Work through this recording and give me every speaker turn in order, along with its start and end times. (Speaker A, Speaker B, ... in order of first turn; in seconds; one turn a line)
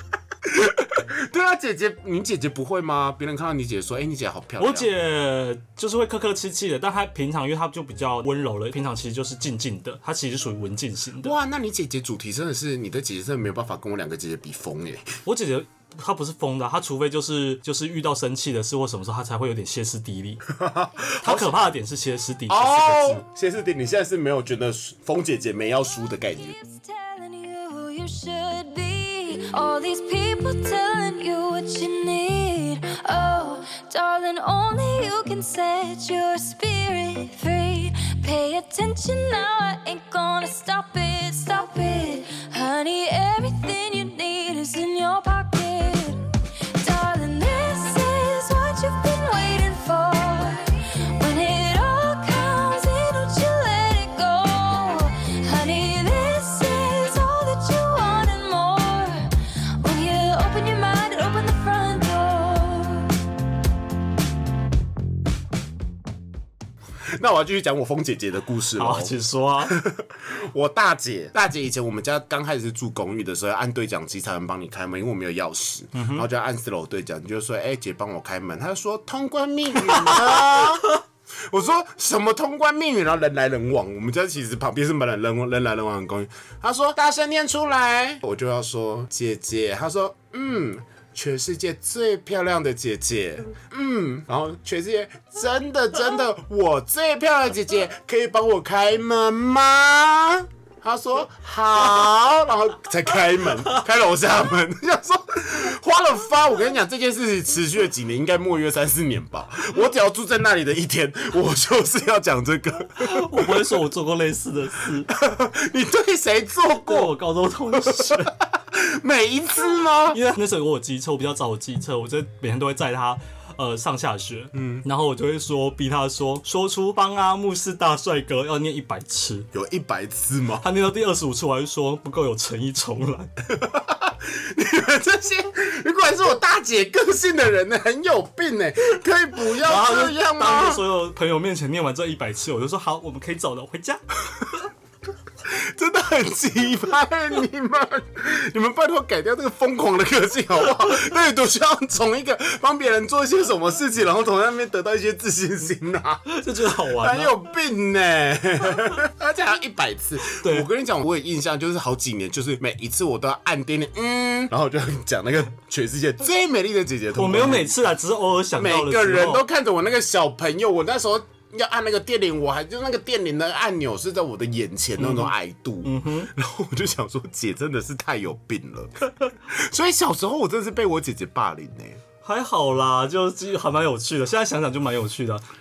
Speaker A: 0.4-4.9
Speaker B: 4.6-11.3
Speaker A: 11.2-15.1
Speaker B: 15.2-20.4
Speaker A: 20.5-21.6
Speaker B: 21.2-23.2
Speaker A: 22.5-26.5
Speaker C: 26.3-63.1
Speaker A: 67.1-113.7
Speaker B: 68.8-69.8
Speaker B: 75.9-76.2
Speaker B: 79.9-80.3
Speaker B: 113.0-115.1
Speaker A: 115.1-117.2
Speaker B: 116.8-118.3
Speaker A: 117.7-120.2
Speaker B: 120.1-129.5
Speaker A: 124.5-124.8
Speaker A: 129.5-130.6
Speaker B: 130.6-133.3
Speaker A: 133.5-140.8
Speaker B: 139.5-144.0
Speaker A: 145.4-167.8
Speaker B: 156.3-157.3
Speaker B: 160.3-160.7
Speaker B: 167.1-169.4
Speaker A: 168.5-182.0
Speaker B: 175.0-176.3
Speaker B: 182.2-185.4